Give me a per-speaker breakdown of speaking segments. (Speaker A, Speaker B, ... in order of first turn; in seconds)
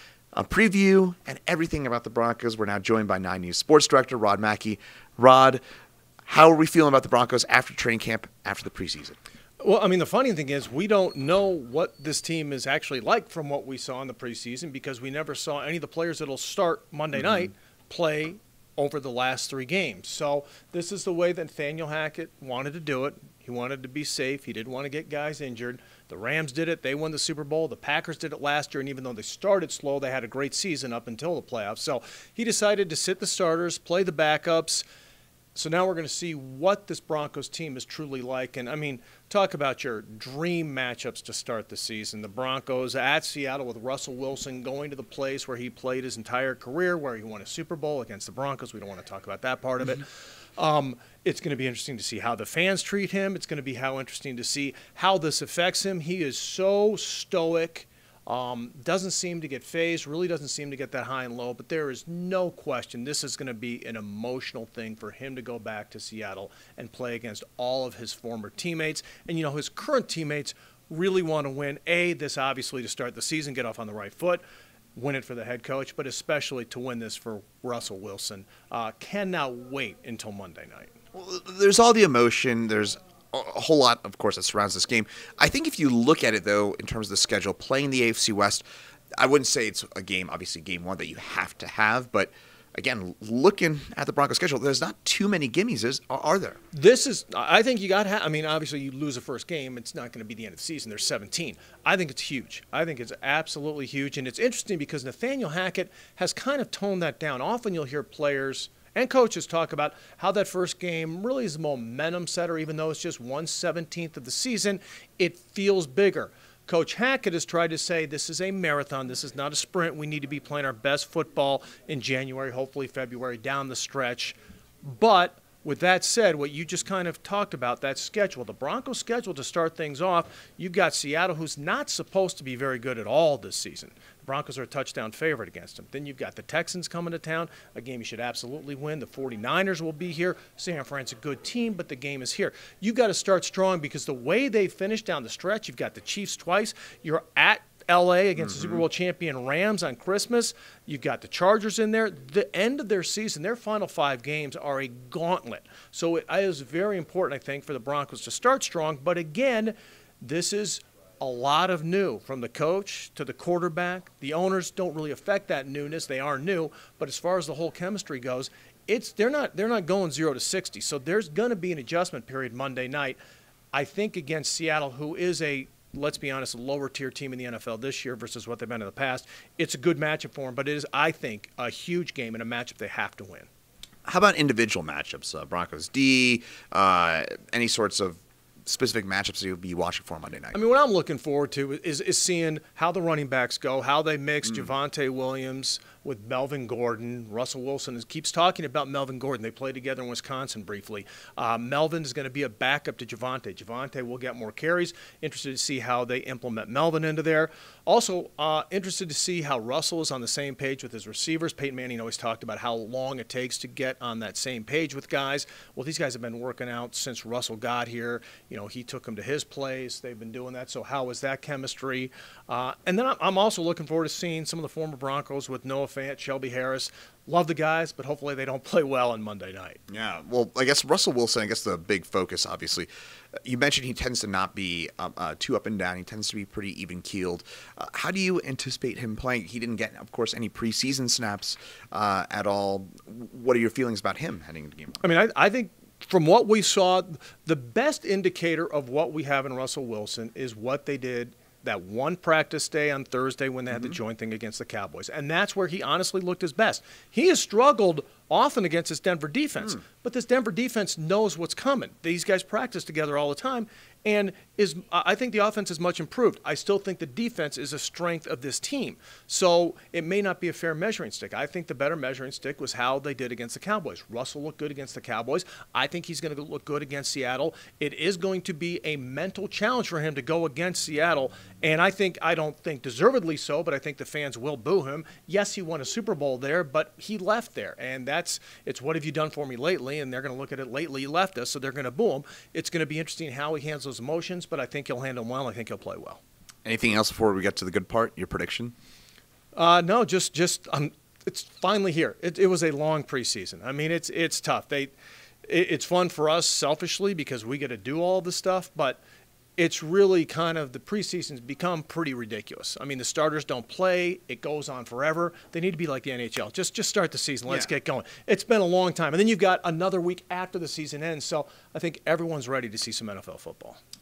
Speaker A: 0.3-5.6, 6.2-9.2, 81.1-88.6, 89.2-96.6, 148.5-148.8, 184.0-190.6, 229.9-232.9, 233.4-245.0, 253.7-254.0, 296.6-298.7
Speaker B: 9.6-34.8, 35.5-50.0, 50.6-74.4, 74.9-80.9, 96.7-173.2, 173.7-183.5, 190.5-229.8, 245.0-296.2, 299.5-304.9, 305.5-309.0, 309.6-323.8